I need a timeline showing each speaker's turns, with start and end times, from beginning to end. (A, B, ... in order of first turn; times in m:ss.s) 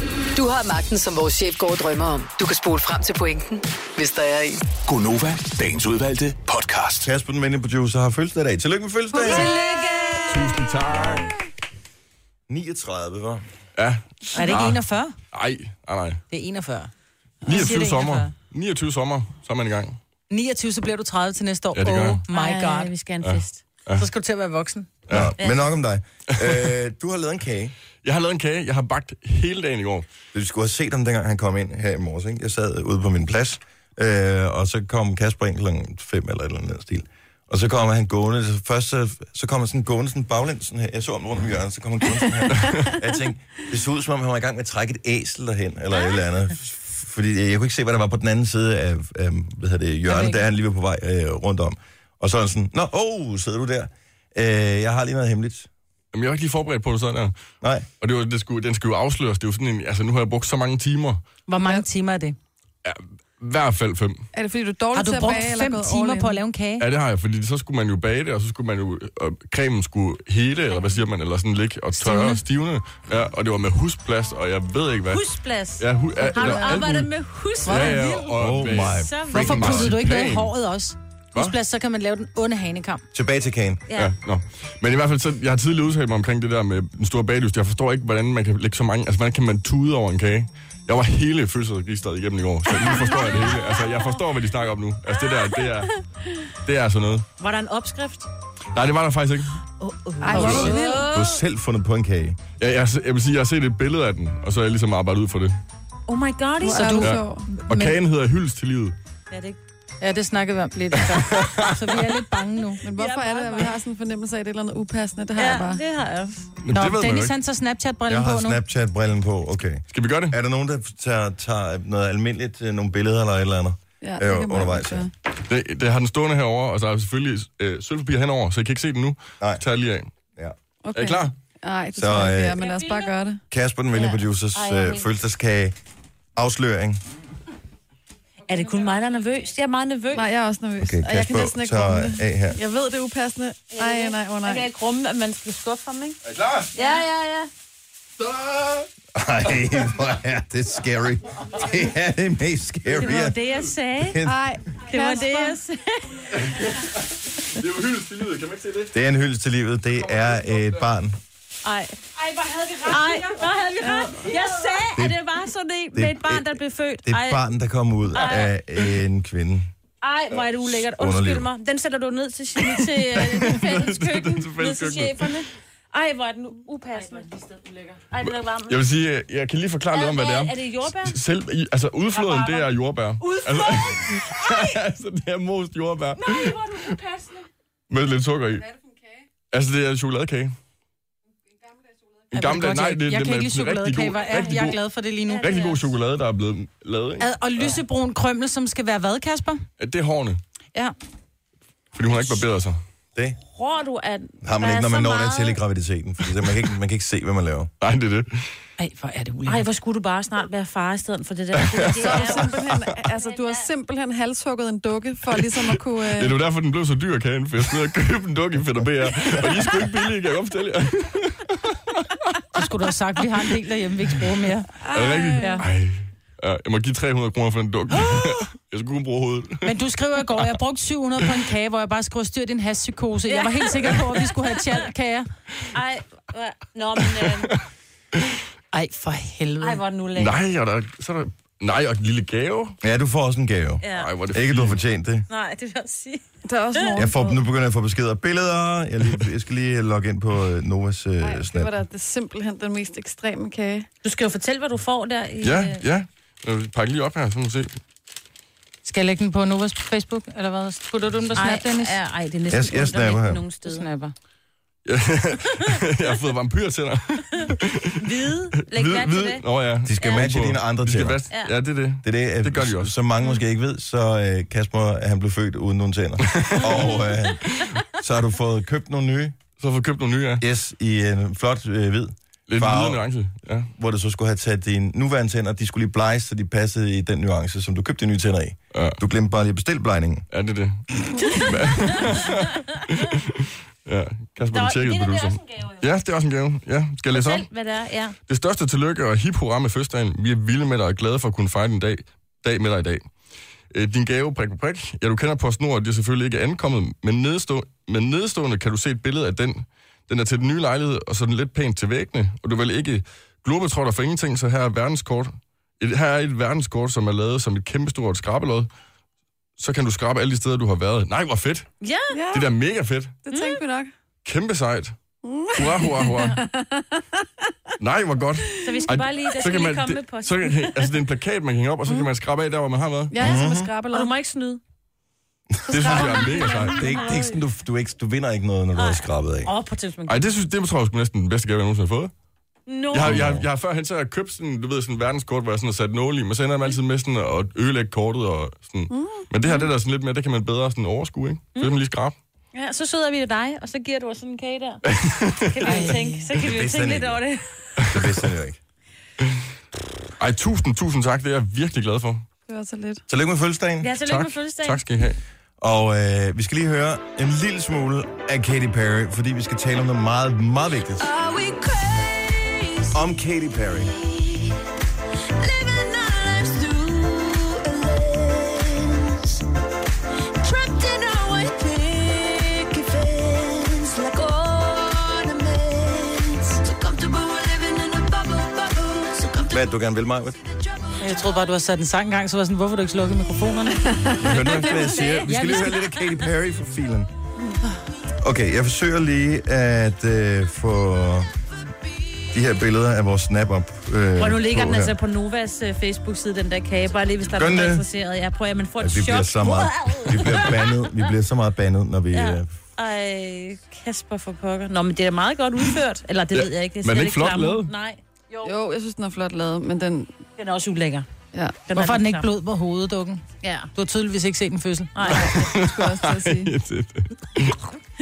0:00.3-0:04.6 A
0:04.8-0:07.1 B
0:07.0-0:09.6 C
0:09.2-0:10.2 D
0:09.2-0:10.5 E
0:09.3-0:10.2 F
0:10.2-0:11.3 G
0:12.5-0:13.4 C
0:13.8-0:16.2 G
0:14.3-0:15.2 E
0:14.4-0:14.6 D
0:16.3-0:16.9 E
0:17.4-0:20.0 G
0:17.4-0:18.3 E
0:20.3-0:22.9 E
0:21.7-0:22.2 G
0:22.3-0:23.6 D
0:23.2-0:24.1 G
0:23.9-0:24.9 E
0:25.1-0:25.3 G
0:25.1-0:27.7 C
0:25.4-0:25.7 D
0:28.0-0:30.1 G
0:30.3-0:55.7 C
0:50.1-0:50.4 E
0:56.1-0:57.3 G
0:57.6-0:57.9 C
0:58.0-1:01.2 G
1:01.5-1:02.4 E
1:02.8-1:04.2 G
1:04.3-1:06.4 F
1:04.9-1:06.9 E
1:06.8-1:15.2 G
1:10.7-1:11.0 D
1:12.0-1:12.4 E
1:15.1-1:19.6 D
1:15.8-1:17.1 G
1:16.3-1:16.9 F
1:17.6-1:18.1 F
1:17.6-1:20.5 G
1:18.4-1:19.9 C
1:19.2-1:23.0 E
1:23.1-1:23.8 C
1:23.9-1:24.1 D
1:23.9-1:35.9 G
1:33.3-1:34.2 D
1:36.6-1:37.2 G
1:37.4-1:38.3 D
1:38.7-1:39.5 G
1:39.8-1:41.4 D
1:40.2-1:41.1 F
1:40.3-1:40.8 E
1:40.3-1:42.4 C
1:42.6-1:45.5 G
1:46.1-1:47.1 D
1:46.6-1:47.4 F
1:46.6-1:48.0 E
1:47.0-1:48.9 G
1:49.3-1:49.6 D
1:50.0-1:52.8 E
1:51.0-1:52.1 G
1:52.8-1:55.8 F
1:52.8-1:53.8 D
1:55.4-1:56.4 D
1:56.6-1:57.3 G
1:56.7-1:58.6 E
1:58.1-2:05.0 C
1:59.9-2:00.3 G
2:04.0-2:05.1 F
2:05.5-2:10.1 G
2:10.8-2:13.4 F
2:10.9-2:11.3 G
2:12.0-2:12.6 C
2:12.6-2:13.1 D
2:13.5-2:15.8 C
2:13.9-2:15.1 D
2:16.4-2:17.0 C
2:18.5-2:20.2 D
2:20.1-2:24.7 F
2:20.8-2:22.6 C
2:23.7-2:26.2 D
2:26.2-2:26.7 G
2:26.7-2:27.5 D
2:28.2-2:28.8 G
2:29.1-2:33.4 C
2:32.9-2:34.2 D
2:34.0-2:34.4 C
2:34.2-2:35.6 F
2:34.8-2:36.4 D
2:36.3-2:38.9 G
2:38.9-2:41.2 C
2:40.1-2:40.7 G
2:41.6-2:47.4 D
2:44.9-2:45.2 C
2:45.9-2:49.7 C
2:48.1-2:48.5 D
2:50.0-2:57.4 D
2:50.9-2:51.5 C
2:52.7-2:55.4 G
2:58.1-2:58.8 D
2:58.7-3:06.9 G
2:59.9-3:01.2 D
3:02.1-3:02.7 D
3:03.2-3:04.8 D
3:06.2-3:07.4 D
3:07.9-3:08.7 G
3:09.5-3:10.5 G
3:12.3-3:14.8 G
3:12.3-3:15.7 E
3:15.3-3:15.8 D
3:15.4-3:17.8 G
3:17.2-3:19.6 E
3:19.8-3:20.4 G
3:21.9-3:22.8 G
3:23.5-3:25.6 D
3:24.4-3:27.7 C
3:27.8-3:28.5 G
3:28.8-3:29.6 E
3:29.4-3:33.7 D
3:31.5-3:32.9 G
3:32.0-3:36.4 F
3:35.4-3:42.4 G
3:42.5-3:44.7 E
3:44.8-3:45.6 F
3:44.9-3:49.7 G
3:45.4-3:45.6 E
3:49.6-3:55.3 E
3:53.3-3:54.9 D
3:55.7-3:57.5 D
3:57.2-3:57.6 G
3:58.7-3:59.8 E
3:59.6-4:00.4 D
4:00.2-4:02.8 G
4:02.8-4:05.2 C
4:03.8-4:04.1 D
4:03.9-4:04.8 G
4:05.3-4:06.2 D
4:06.4-4:07.4 F
4:06.7-4:07.0 D
4:06.9-4:11.7 C
4:11.2-4:13.9 F
4:14.0-4:15.8 D
4:15.4-4:17.8 G
4:18.8-4:21.9 E
4:21.3-4:23.9 D
4:22.5-4:23.4 C
4:23.6-4:24.1 E
4:24.8-4:28.1 G
4:27.4-4:29.4 D
4:28.8-4:31.2 C
4:29.4-4:32.9 G
4:30.0-4:30.3 D
4:32.0-4:39.4 C
4:36.2-4:37.6 G
4:39.6-4:40.4 G
4:40.4-4:43.0 C
4:42.5-4:43.7 G
4:43.8-4:50.2 C
4:48.7-4:49.0 G
4:50.3-4:57.5 G
4:54.5-4:55.8 D
4:57.1-4:58.2 D
4:58.3-5:03.1 G
5:03.7-5:18.7 G
5:19.6-5:21.6 G
5:21.8-5:22.2 D
5:22.1-5:22.5 F
5:22.3-5:23.2 G
5:23.2-5:23.9 F
5:23.3-5:23.6 D
5:24.2-5:25.0 G
5:25.2-5:27.2 F
5:25.5-5:26.4 G
5:27.8-5:33.2 G
5:28.6-5:30.9 D
5:33.1-5:34.1 F
5:33.2-5:33.7 C
5:33.9-5:34.6 D
5:35.5-5:39.5 C
5:35.7-5:36.7 F
5:35.7-5:36.9 G
5:35.8-5:37.4 D
5:38.7-5:40.3 D
5:40.1-5:42.1 G
5:42.7-5:43.4 D
5:42.9-5:52.1 G
5:43.0-5:43.4 C
5:48.9-5:49.3 F
5:52.5-5:54.8 D
5:54.8-5:55.8 G
5:55.4-5:57.7 D
5:55.6-5:56.2 E
5:56.3-5:57.2 C
5:57.9-5:58.6 C
6:00.2-6:02.2 G
6:02.5-6:03.0 F
6:03.1-6:03.9 C
6:03.8-6:04.8 D
6:04.0-6:05.2 G
6:05.6-6:11.1 C
6:11.2-6:13.0 A
6:12.9-6:13.9 C
6:14.0-6:14.5 A
6:15.4-6:18.9 A
6:20.6-6:29.3 A
6:29.4-6:30.4 C
6:31.0-6:33.9 E
6:33.8-6:34.9 F
6:34.2-6:37.1 C
6:34.5-6:35.6 D
6:35.2-6:35.8 E
6:38.2-6:41.3 C
6:42.3-6:45.0 C
6:44.2-6:51.1 D
6:47.3-6:47.8 C
6:48.8-6:52.5 C
6:52.1-6:58.5 D
6:56.3-6:57.7 G
6:58.4-7:00.1 F
7:00.4-7:01.0 D
7:01.3-7:01.9 F
7:01.7-7:02.3 D
7:01.7-7:03.2 E
7:03.4-7:03.7 D
7:03.7-7:05.0 E
7:04.9-7:05.5 D
7:05.0-7:06.5 F
7:05.1-7:07.6 G